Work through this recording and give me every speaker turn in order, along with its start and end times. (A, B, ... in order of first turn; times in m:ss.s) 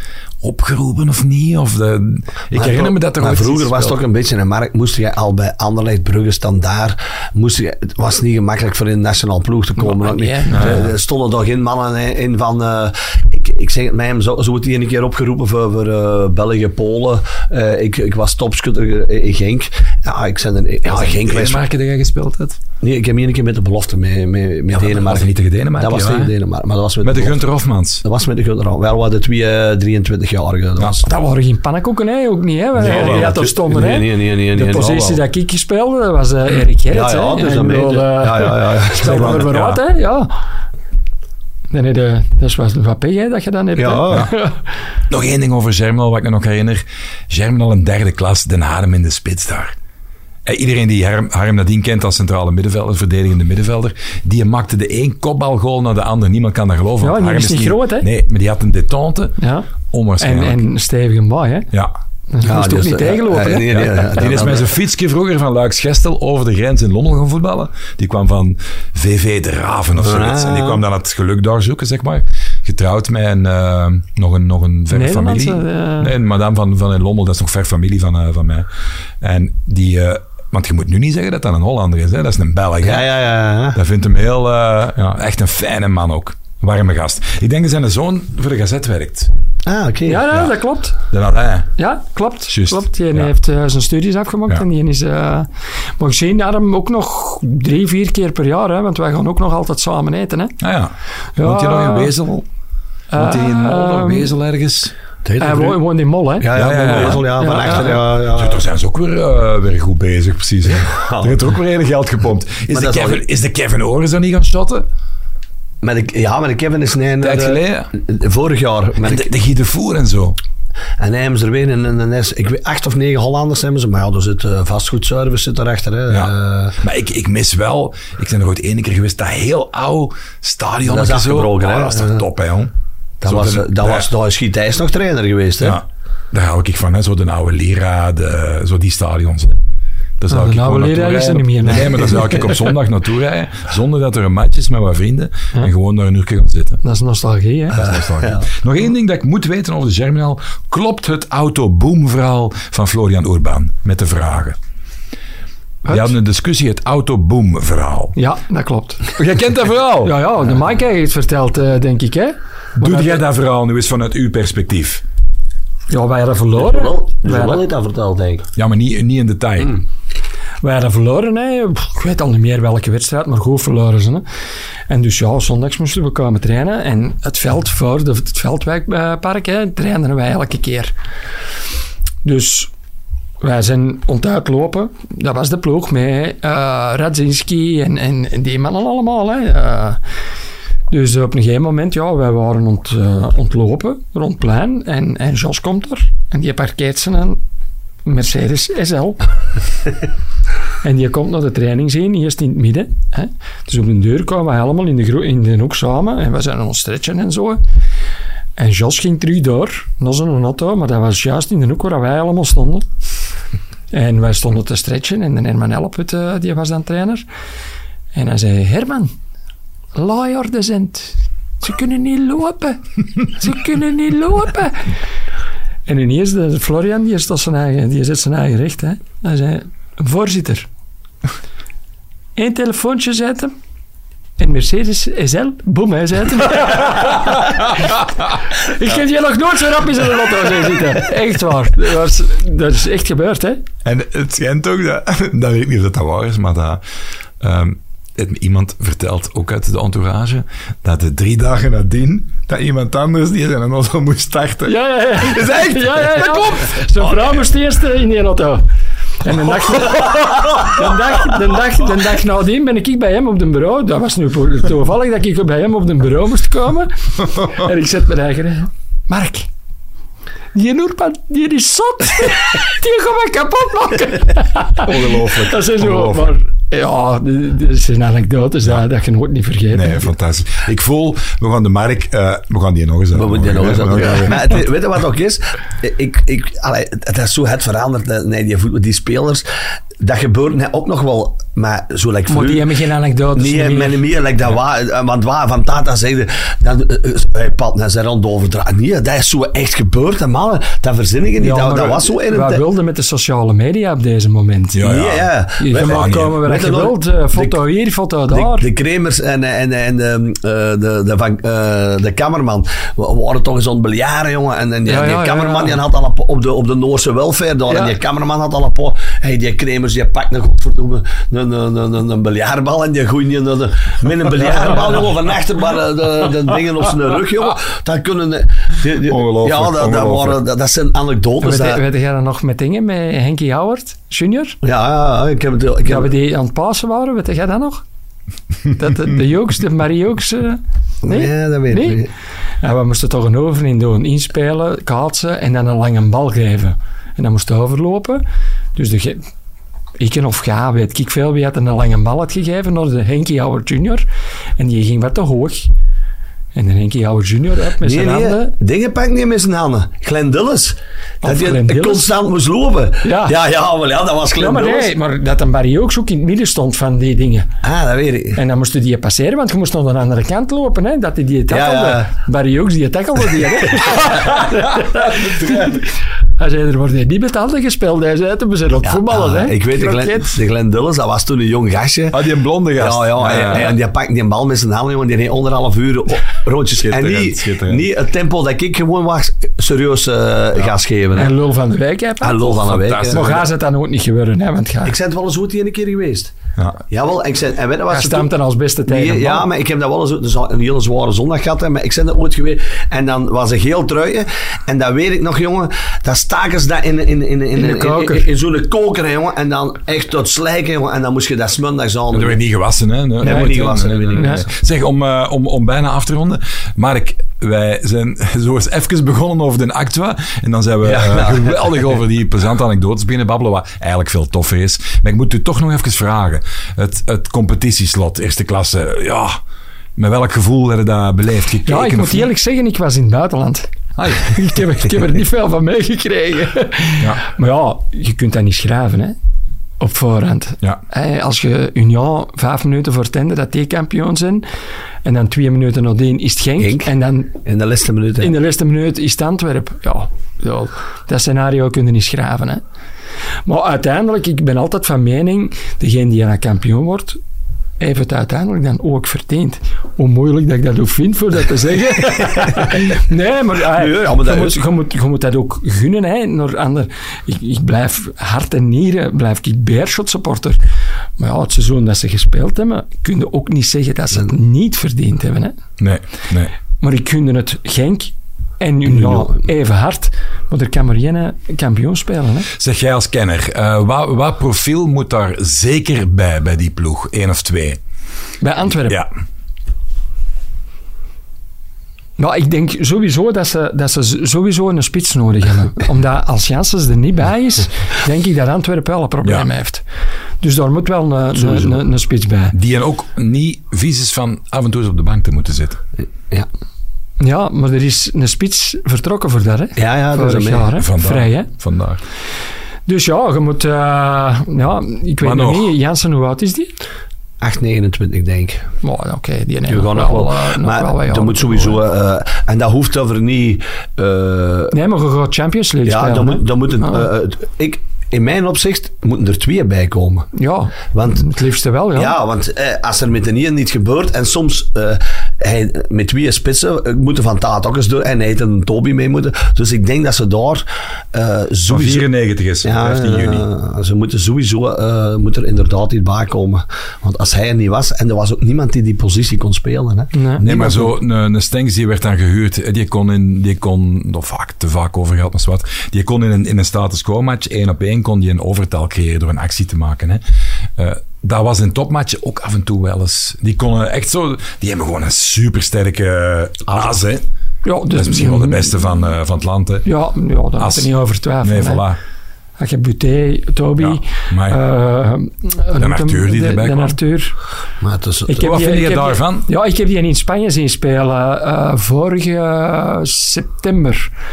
0:00.4-0:04.0 A
0:02.5-0:21.6 B
0:09.8-0:10.9 C
0:10.5-0:10.9 A
0:20.9-0:22.6 A
0:22.8-0:27.4 B
0:24.8-0:26.3 A
0:27.0-0:28.0 A
0:28.0-0:31.1 B
0:31.0-0:40.3 C
0:32.8-0:35.2 B
0:32.8-0:33.3 A
0:36.9-0:39.5 B
0:39.0-0:39.8 A
0:41.7-0:44.6 C
0:43.8-0:44.3 B
0:45.1-0:49.8 A
0:50.4-0:59.4 A
0:57.0-0:58.1 C
0:59.4-0:59.7 C
0:59.9-1:00.6 A
1:00.2-1:01.7 C
1:02.3-1:04.1 C
1:02.4-1:04.7 B
1:03.7-1:18.7 A
1:10.0-1:10.8 B
1:14.9-1:16.1 C
1:19.2-1:23.1 A
1:22.8-1:23.8 B
1:23.7-1:29.3 A
1:29.7-1:30.3 B
1:30.1-1:31.0 C
1:31.1-1:31.7 A
1:31.8-1:40.6 C
1:32.5-1:33.3 A
1:40.6-1:42.5 A
1:41.4-1:42.1 C
1:43.1-1:44.3 C
1:43.2-1:44.9 A
1:45.2-1:45.8 B
1:45.4-1:48.0 C
1:46.4-1:48.6 B
1:46.5-1:54.9 A
1:50.7-1:51.4 B
1:52.7-1:53.2 B
1:55.8-1:59.3 B
1:57.2-1:57.9 A
1:59.0-2:00.4 A
2:01.0-2:06.8 B
2:06.1-2:12.7 A
2:10.9-2:12.2 B
2:13.2-2:15.8 B
2:13.2-2:14.1 A
2:15.6-2:19.6 A
2:20.2-2:26.8 A
2:20.3-2:22.3 C
2:26.8-2:27.8 C
2:27.7-2:34.6 A
2:27.8-2:28.5 B
2:35.9-2:36.1 C
2:35.9-2:38.2 A
2:38.2-2:39.1 C
2:39.2-2:40.2 A
2:40.0-2:43.2 C
2:42.8-2:45.0 A
2:45.9-2:47.7 C
2:46.6-2:48.5 B
2:48.6-2:49.8 A
2:50.6-2:54.2 C
2:54.9-3:00.9 C
3:02.2-3:02.7 C
3:03.4-3:10.0 C
3:10.9-3:17.4 C
3:18.0-3:19.2 C
3:20.8-3:27.6 C
3:28.6-3:32.8 C
3:33.9-3:37.2 C
3:38.1-3:39.1 C
3:40.0-3:44.9 C
3:45.9-3:50.7 C
3:52.4-3:53.5 C
3:54.4-4:03.6 C
4:03.8-4:06.8 A
4:07.4-4:17.3 A
4:14.7-4:18.6 C
4:19.2-4:29.5 C
4:30.5-4:40.1 C
4:34.8-4:36.3 A
4:39.7-4:44.6 A
4:43.2-4:49.4 B
4:50.0-4:52.7 B
4:52.3-4:54.0 C
4:53.4-5:02.6 B
5:01.4-5:04.9 C
5:04.7-5:06.4 A
5:04.8-5:07.6 B
5:05.6-5:08.7 C
5:08.3-5:31.8 B
5:14.9-5:15.8 C
5:17.7-5:18.0 C
5:29.0-5:30.4 A
5:31.4-5:34.6 C
5:34.6-5:36.1 B
5:35.8-5:37.8 C
5:38.7-5:42.0 C
5:41.0-5:42.1 B
5:42.6-5:48.2 C
5:48.8-5:49.2 C
5:50.0-5:54.1 C
5:54.6-5:55.7 C
5:56.6-5:58.5 C
5:57.8-6:04.9 B
6:01.2-6:02.1 C
6:03.0-6:03.4 C
6:04.4-6:07.5 C
6:07.6-6:08.4 B
6:08.4-6:20.4 C
6:11.5-6:12.1 B
6:15.0-6:15.8 A
6:18.8-6:31.4 B
6:22.1-6:23.8 A
6:26.8-6:27.9 A
6:31.2-6:35.0 C
6:32.2-6:33.3 B
6:32.5-6:33.5 A
6:34.8-6:36.3 B
6:36.9-6:38.3 B
6:37.9-6:39.5 C
6:38.9-6:52.4 B
6:47.5-6:48.3 C
6:52.1-7:09.4 A
6:53.2-6:54.5 B
6:53.2-6:54.4 C
7:00.8-7:01.9 B
7:10.0-7:12.3 A
7:11.7-7:19.2 C
7:14.0-7:14.3 A
7:19.8-7:24.4 C
7:25.0-7:27.4 C
7:26.6-7:26.9 B
7:27.4-7:28.4 B
7:28.2-7:32.6 C
7:33.4-7:37.2 C
7:37.8-7:50.6 C
7:43.7-7:44.6 B
7:51.2-7:55.6 C
7:55.8-7:56.5 A
7:56.8-8:02.5 C
7:59.0-7:59.4 B
8:02.5-8:07.8 A
8:08.4-8:09.0 C
8:12.2-8:19.8 C
8:20.4-8:22.6 C
8:22.5-8:25.8 A
8:27.2-8:31.5 C
8:29.8-8:30.7 B
8:30.8-8:32.0 A
8:32.9-8:36.7 C
8:35.2-8:35.7 A
8:37.4-8:38.7 B
8:38.8-8:41.8 C
8:39.7-8:44.8 B
8:44.7-8:47.1 C
8:45.9-8:50.3 B
8:50.3-8:52.2 C
8:50.9-8:51.3 B
8:52.0-9:02.1 B
9:01.7-9:03.4 A
9:02.6-9:10.9 B
9:10.1-9:10.5 C
9:10.4-9:20.2 A
9:20.8-9:27.2 A
9:27.6-9:28.8 C
9:27.9-9:29.9 A
9:29.8-9:31.8 C
9:30.6-9:30.9 A
9:31.4-9:32.0 A
9:32.6-9:37.4 C
9:33.8-9:34.6 A
9:35.8-9:37.0 A
9:37.8-9:38.5 B
9:38.3-9:44.1 C
9:38.4-9:39.5 A